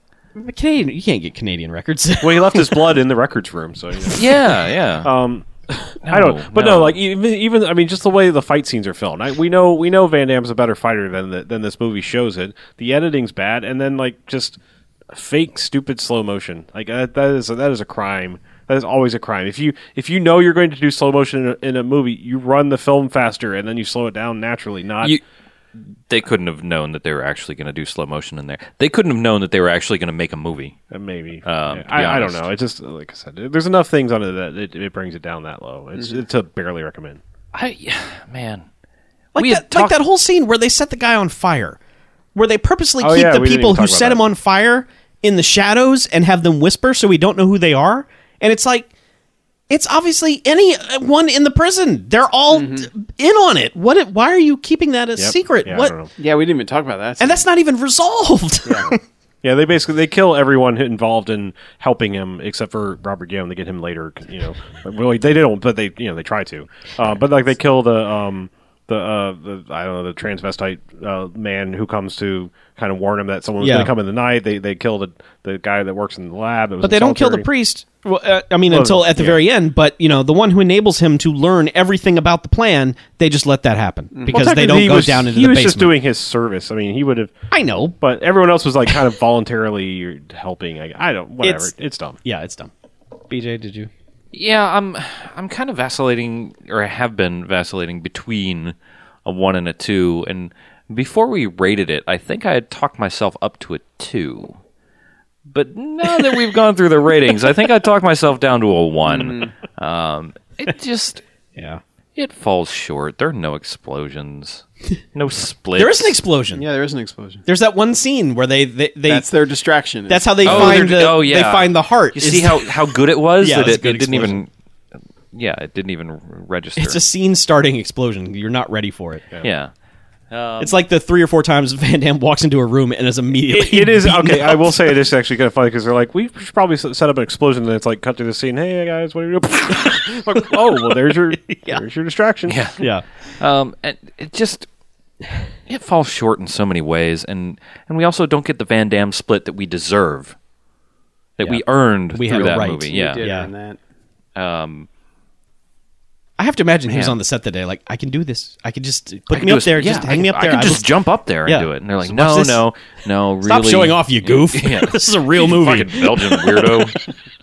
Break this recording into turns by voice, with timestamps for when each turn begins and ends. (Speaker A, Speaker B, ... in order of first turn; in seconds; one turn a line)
Speaker A: 0.3-2.9
Speaker B: 2.2-14.6
Speaker C: 4.1-5.1
Speaker C: 6.0-7.0
Speaker B: 15.1-25.2
Speaker C: 26.1-30.8
Speaker B: 30.9-37.2
Speaker C: 31.4-32.4
Speaker C: 37.5-38.6
Speaker C: 39.3-40.0
Speaker A: 39.3-41.8
Speaker A: 42.3-48.9
Speaker B: 43.0-44.2
Speaker A: 49.7-55.9
Speaker D: 52.5-52.9
Speaker B: 55.2-56.1
Speaker D: 56.1-57.4
Speaker A: 57.2-59.0
Speaker B: 59.4-77.5
Speaker A: 73.6-73.9
Speaker A: 76.8-85.9
Speaker B: 78.7-79.4
Speaker D: 84.1-84.5
Speaker B: 84.3-87.3
Speaker A: 87.5-88.0
Speaker B: 88.0-92.2
Speaker A: 91.4-91.7
Speaker A: 92.2-92.7
Speaker A: 93.3-93.9
Speaker C: 94.3-104.6
Speaker C: 105.5-111.2
Speaker D: 109.0-109.5
Speaker A: 111.5-111.8
Speaker C: 112.2-116.2
Speaker A: 115.8-116.6
Speaker D: 116.5-117.4
Speaker A: 117.5-119.3
Speaker D: 119.1-121.0
Speaker A: 120.1-124.4
Speaker C: 120.4-124.5
Speaker C: 125.3-127.0
Speaker A: 126.8-129.2
Speaker C: 129.4-129.7
Speaker C: 130.3-130.8
Speaker A: 130.6-134.9
Speaker B: 133.5-142.6
Speaker A: 141.4-141.8
Speaker C: 142.5-142.8
Speaker A: 142.8-143.0
Speaker C: 143.4-144.7
Speaker C: 145.7-150.3
Speaker C: 151.4-153.2
Speaker A: 152.1-153.5
Speaker D: 152.4-153.8
Speaker C: 154.3-154.9
Speaker A: 156.4-160.9
Speaker C: 156.9-157.2
Speaker C: 159.3-167.1
Speaker A: 161.4-162.6
Speaker A: 163.4-166.9